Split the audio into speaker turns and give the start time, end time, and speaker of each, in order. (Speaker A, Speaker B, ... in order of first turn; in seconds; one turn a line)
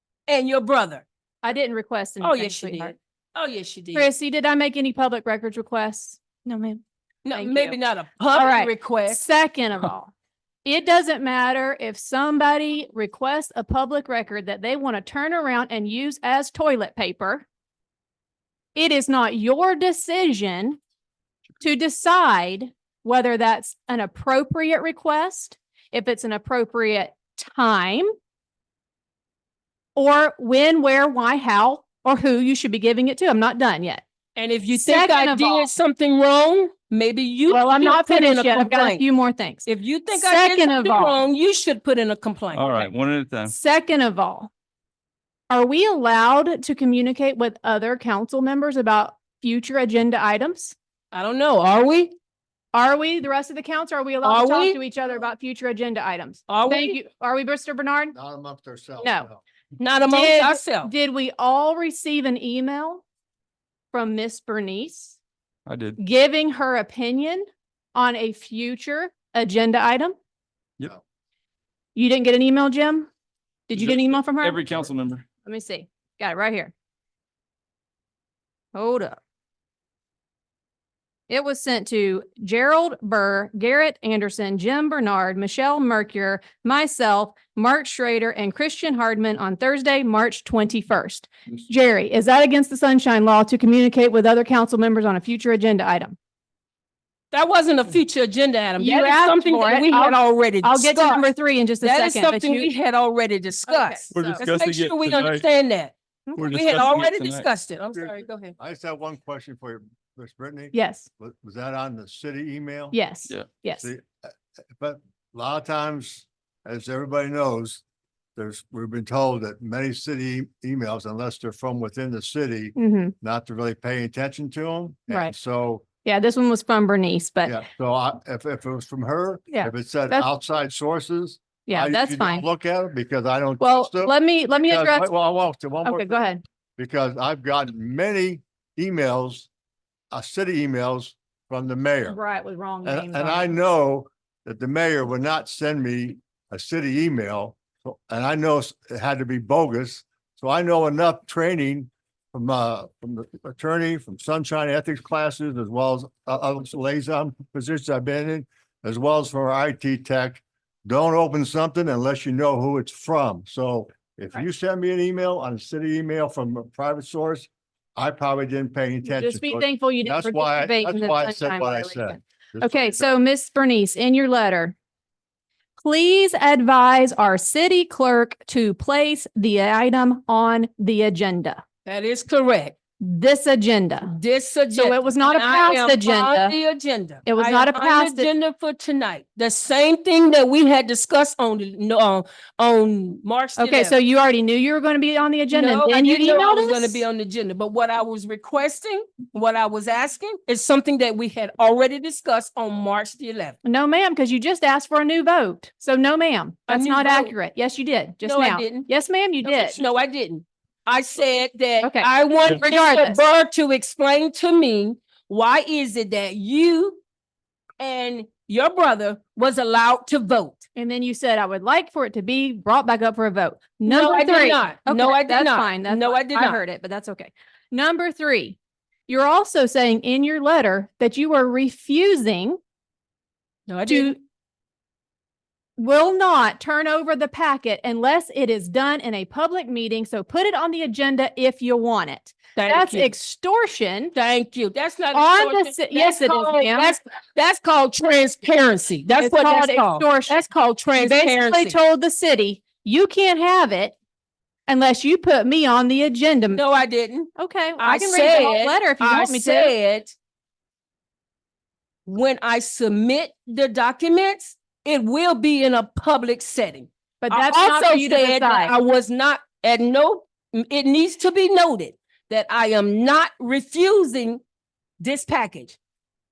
Speaker A: 0.3-1.1
Speaker B: 1.4-3.0
Speaker A: 2.2-4.1
Speaker B: 3.9-6.8
Speaker A: 7.2-9.2
Speaker B: 7.3-7.8
Speaker B: 8.3-10.1
Speaker B: 10.7-17.5
Speaker B: 18.8-20.8
Speaker B: 21.6-28.1
Speaker B: 30.0-34.0
Speaker A: 34.4-39.0
Speaker B: 34.7-35.7
Speaker B: 37.5-41.2
Speaker A: 39.7-42.9
Speaker C: 42.5-43.5
Speaker B: 43.5-44.5
Speaker B: 45.5-50.8
Speaker A: 51.1-52.1
Speaker B: 52.7-58.1
Speaker A: 54.2-54.8
Speaker A: 56.5-57.0
Speaker D: 58.1-59.4
Speaker B: 59.0-59.3
Speaker A: 59.8-60.9
Speaker B: 60.0-63.0
Speaker B: 63.9-65.2
Speaker C: 65.7-66.0
Speaker B: 66.0-70.2
Speaker B: 72.0-73.1
Speaker B: 73.7-74.6
Speaker C: 73.7-75.2
Speaker B: 75.5-76.7
Speaker B: 78.8-79.2
Speaker B: 81.3-96.2
Speaker A: 97.3-101.3
Speaker B: 98.8-102.7
Speaker A: 101.8-105.9
Speaker B: 103.7-104.4
Speaker C: 104.1-105.4
Speaker C: 106.3-107.5
Speaker A: 106.5-108.6
Speaker D: 107.9-113.0
Speaker B: 110.7-111.1
Speaker B: 112.9-113.9
Speaker D: 113.8-117.8
Speaker D: 118.4-125.8
Speaker B: 122.8-123.1
Speaker B: 125.1-125.3
Speaker B: 126.0-127.6
Speaker D: 127.5-134.2
Speaker B: 129.5-130.3
Speaker B: 131.7-132.4
Speaker B: 133.6-135.1
Speaker D: 134.7-136.1
Speaker B: 135.8-136.4
Speaker D: 136.8-139.5
Speaker D: 140.1-142.2
Speaker B: 142.1-143.5
Speaker D: 142.8-173.1
Speaker B: 169.0-174.7
Speaker B: 175.8-181.6
Speaker A: 181.9-182.8
Speaker B: 183.0-184.1
Speaker A: 184.1-194.0
Speaker B: 184.8-186.6
Speaker B: 187.2-188.3
Speaker B: 193.6-197.0
Speaker A: 195.5-203.6
Speaker B: 203.7-209.8
Speaker A: 206.7-207.3
Speaker A: 208.2-208.9
Speaker A: 209.4-217.0
Speaker B: 211.8-213.2
Speaker A: 217.8-220.7
Speaker B: 220.8-228.6
Speaker A: 223.9-226.6
Speaker B: 229.1-232.6
Speaker A: 233.7-234.2
Speaker B: 233.9-234.2
Speaker B: 235.8-244.1
Speaker A: 242.6-243.1
Speaker A: 244.2-251.8
Speaker B: 245.1-247.0
Speaker B: 249.2-250.4
Speaker B: 251.0-254.0
Speaker B: 254.7-256.7
Speaker A: 256.6-260.1
Speaker B: 257.4-259.8
Speaker A: 262.1-274.4
Speaker B: 267.2-268.7
Speaker A: 275.0-275.8